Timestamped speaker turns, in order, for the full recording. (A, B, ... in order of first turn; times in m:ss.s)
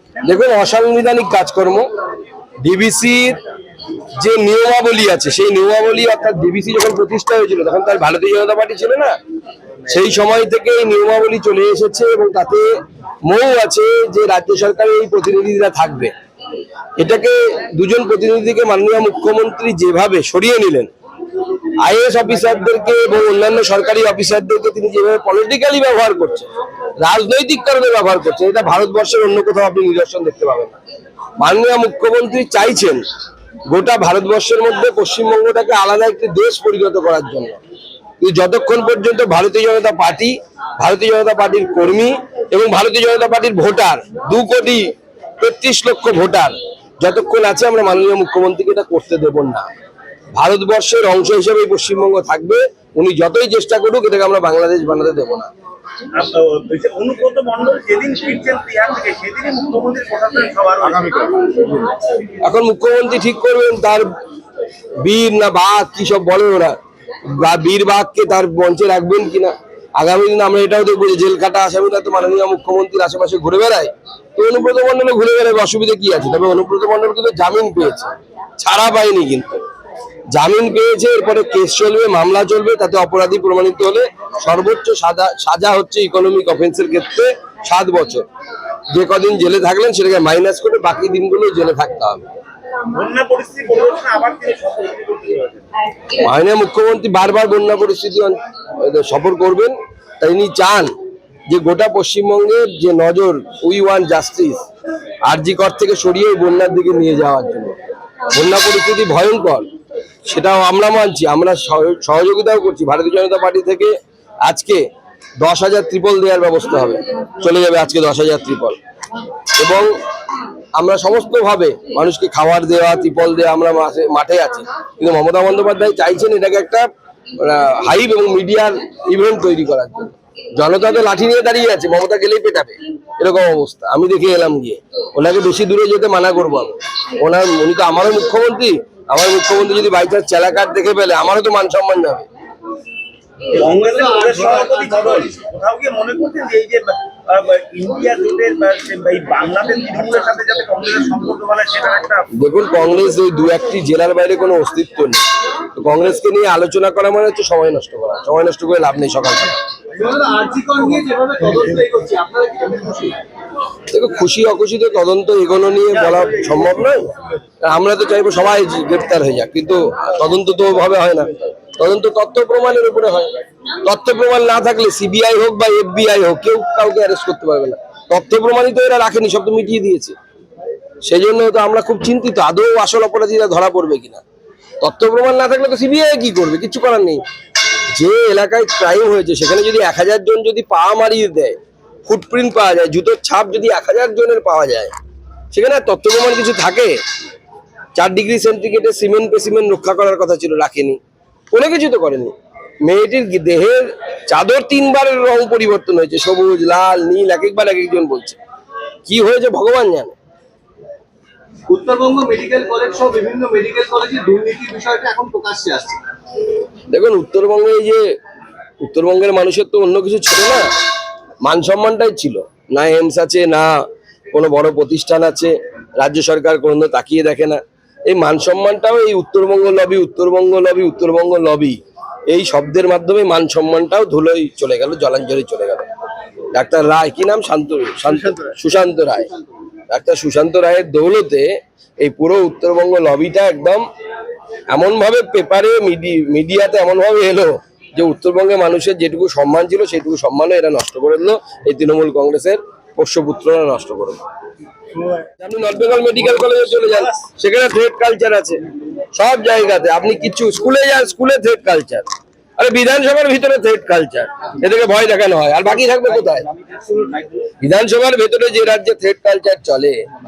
0:00.2-0:01.9 A
0:02.6-0:03.4 A
0:04.2-0:09.2 A
0:09.9-0:12.7 A
0:13.2-0:16.1 A
0:17.0-0:20.9 A
0:21.8-0:30.8 A
0:31.4-0:33.0 A
0:33.7-0:37.6 A
0:38.2-0:49.7 A
0:50.4-0:55.5 A
0:56.1-1:01.6 B
1:02.4-1:04.1 A
1:05.0-1:06.8 A
1:07.4-1:19.6 A
1:20.3-1:28.2 A
1:28.9-1:32.3 A
1:32.9-1:35.7 B
1:36.1-1:40.9 A
1:41.5-1:44.6 A
1:45.2-1:47.8 A
1:48.3-1:49.7 A
1:50.2-1:53.9 A
1:54.4-1:54.8 A
1:55.4-1:58.8 A
1:59.6-1:59.9 A
2:00.8-2:06.9 A
2:07.4-2:22.3 A
2:23.5-2:32.3 B
2:23.6-2:25.3 C
2:32.4-2:35.2 A
2:35.8-2:39.6 A
2:39.9-2:43.2 C
2:43.9-2:47.1 A
2:47.6-3:00.2 A
3:01.1-3:04.2 A
3:04.8-3:07.2 A
3:08.0-3:14.9 A
3:15.5-3:17.0 A
3:18.0-3:21.0 A
3:21.5-3:22.3 A
3:22.8-3:28.4 A
3:29.1-3:30.2 A
3:31.7-3:36.0 C
3:36.9-3:38.0 A
3:38.8-3:40.6 A
3:41.4-3:43.7 A
3:44.3-3:55.9 A
3:56.5-3:59.3 A
3:59.9-4:03.8 A
4:04.7-4:14.2 A
4:15.4-4:18.6 A
4:19.1-4:22.0 A
4:22.6-4:26.5 A
4:26.7-4:27.3 B
4:27.6-4:30.0 A